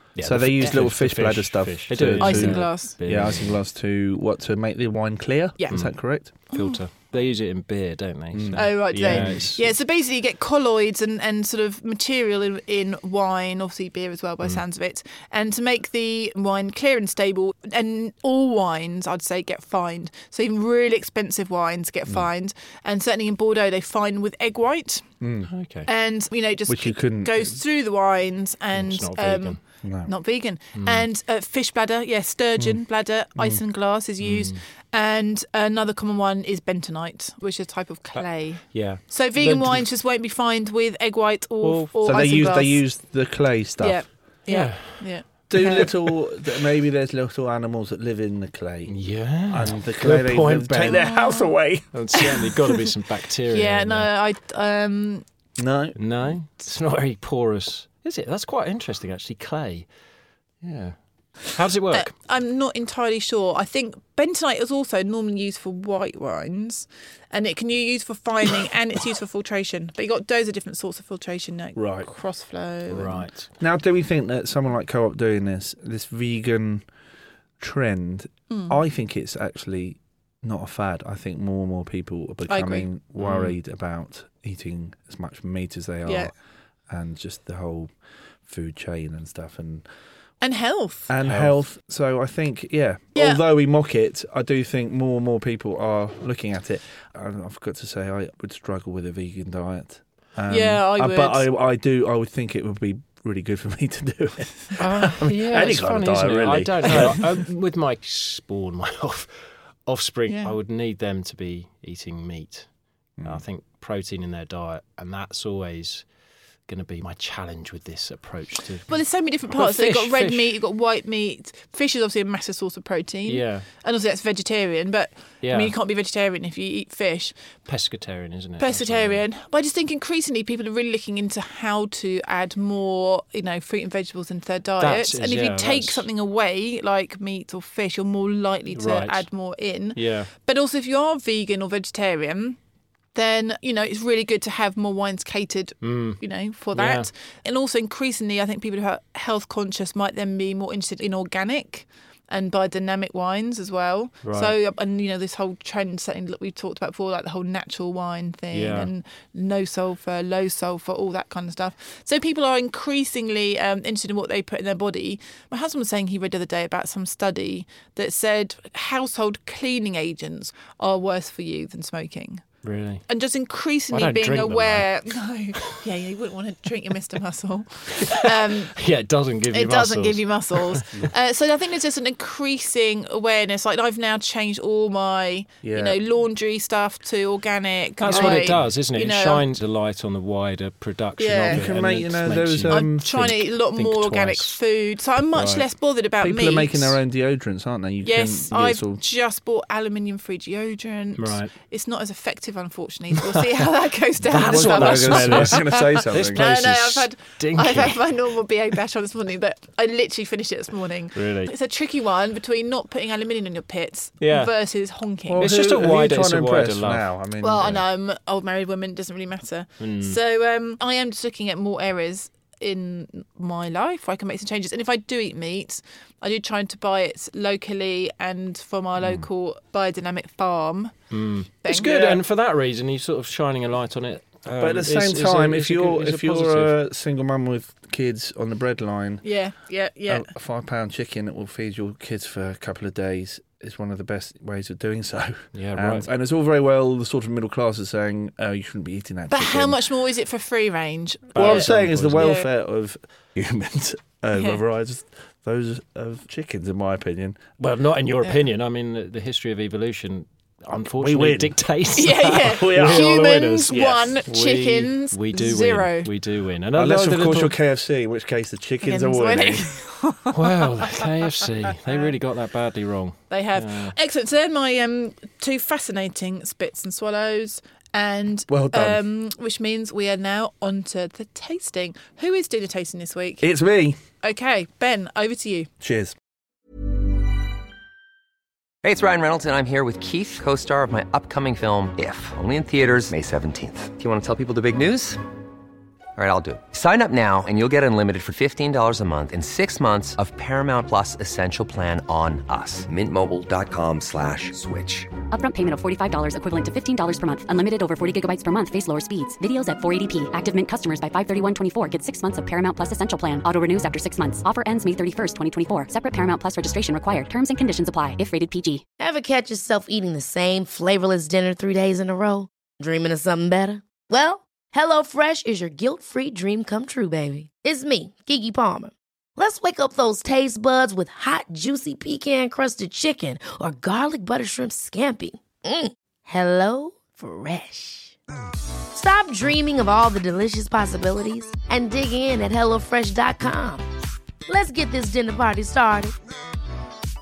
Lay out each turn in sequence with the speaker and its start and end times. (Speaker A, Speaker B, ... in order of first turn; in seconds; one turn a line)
Speaker A: 0.1-3.6
Speaker B: 0.2-6.3
Speaker C: 2.2-2.9
Speaker C: 6.5-6.8
Speaker A: 6.5-9.7
Speaker B: 8.3-9.4
Speaker C: 8.5-25.0
Speaker B: 25.2-25.5
Speaker A: 25.5-25.9
Speaker C: 25.9-42.8
Speaker B: 26.7-27.6
Speaker A: 28.7-29.6
Speaker B: 29.8-30.1
Speaker A: 30.8-31.1
Speaker A: 34.2-34.6
Speaker A: 38.1-39.9
Speaker A: 41.6-42.5
Speaker B: 42.0-44.0
Speaker C: 43.8-45.9
Speaker A: 44.5-45.1
Speaker B: 45.5-49.0
Speaker A: 48.9-51.1
Speaker B: 49.5-51.9
Speaker C: 51.0-51.5
Speaker A: 51.9-54.1
Speaker C: 52.2-52.9
Speaker C: 53.5-55.2
Speaker B: 55.6-56.0
Speaker A: 56.0-59.9
Speaker A: 60.6-60.9
Speaker A: 61.5-62.1
Speaker C: 61.9-73.3
Speaker B: 71.8-72.1
Speaker A: 72.9-73.5
Speaker B: 73.6-76.8
Speaker B: 77.6-86.3
Speaker C: 78.5-78.8
Speaker C: 82.5-82.9
Speaker A: 83.2-83.6
Speaker C: 86.0-86.3
Speaker B: 86.9-87.9
Speaker B: 88.5-89.8
Speaker C: 90.4-91.1
Speaker B: 91.1-107.3
Speaker A: 91.2-91.5
Speaker C: 93.1-93.4
Speaker C: 100.5-101.5
Speaker A: 104.8-109.3
Speaker A: 109.8-112.7
Speaker C: 110.3-110.5
Speaker B: 113.2-113.4
Speaker A: 113.2-116.0
Speaker A: 116.7-120.6
Speaker C: 118.9-127.3
Speaker A: 123.3-123.7
Speaker A: 125.4-125.7
Speaker A: 127.7-129.2
Speaker C: 128.6-142.6
Speaker A: 134.8-136.1
Speaker A: 138.7-139.2
Speaker A: 139.9-140.3
Speaker C: 143.1-172.4
Speaker A: 145.8-146.2
Speaker A: 146.7-147.1
Speaker A: 154.2-154.5
Speaker A: 158.5-158.9
Speaker A: 172.6-173.0
Speaker C: 173.1-178.7
Speaker A: 173.9-174.9
Speaker A: 178.0-180.8
Speaker C: 179.5-189.4
Speaker B: 185.6-186.0
Speaker A: 188.0-194.6
Speaker B: 188.1-188.6
Speaker C: 191.2-191.6
Speaker B: 191.4-193.3
Speaker C: 192.7-197.0
Speaker A: 195.3-195.6
Speaker B: 196.2-199.0
Speaker C: 198.0-215.4
Speaker A: 201.2-201.5
Speaker A: 203.3-203.7
Speaker A: 204.2-208.1
Speaker B: 204.3-206.5
Speaker A: 211.1-211.5
Speaker A: 214.2-214.5
Speaker B: 215.3-217.8
Speaker A: 215.4-217.1
Speaker C: 217.4-230.9
Speaker A: 219.8-220.2
Speaker A: 231.1-236.7
Speaker C: 231.6-231.9
Speaker B: 231.7-232.2
Speaker B: 234.6-239.2
Speaker C: 239.2-240.3
Speaker B: 240.1-249.8
Speaker A: 245.5-246.1
Speaker C: 249.3-252.5
Speaker A: 251.3-252.3
Speaker B: 251.3-257.4
Speaker C: 254.3-254.6
Speaker A: 257.6-267.6
Speaker B: 261.0-261.6
Speaker C: 261.9-266.1
Speaker B: 262.4-264.1
Speaker B: 266.7-269.7
Speaker C: 268.8-270.6
Speaker A: 270.3-273.9
Speaker C: 273.3-283.5
Speaker B: 278.5-279.0
Speaker B: 283.4-284.0
Speaker C: 284.2-285.7
Speaker B: 285.8-286.1
Speaker D: 288.8-295.2
Speaker D: 296.1-305.2
Speaker E: 305.3-318.8
Speaker F: 319.0-338.1
Speaker F: 338.9-343.9
Speaker F: 344.5-346.1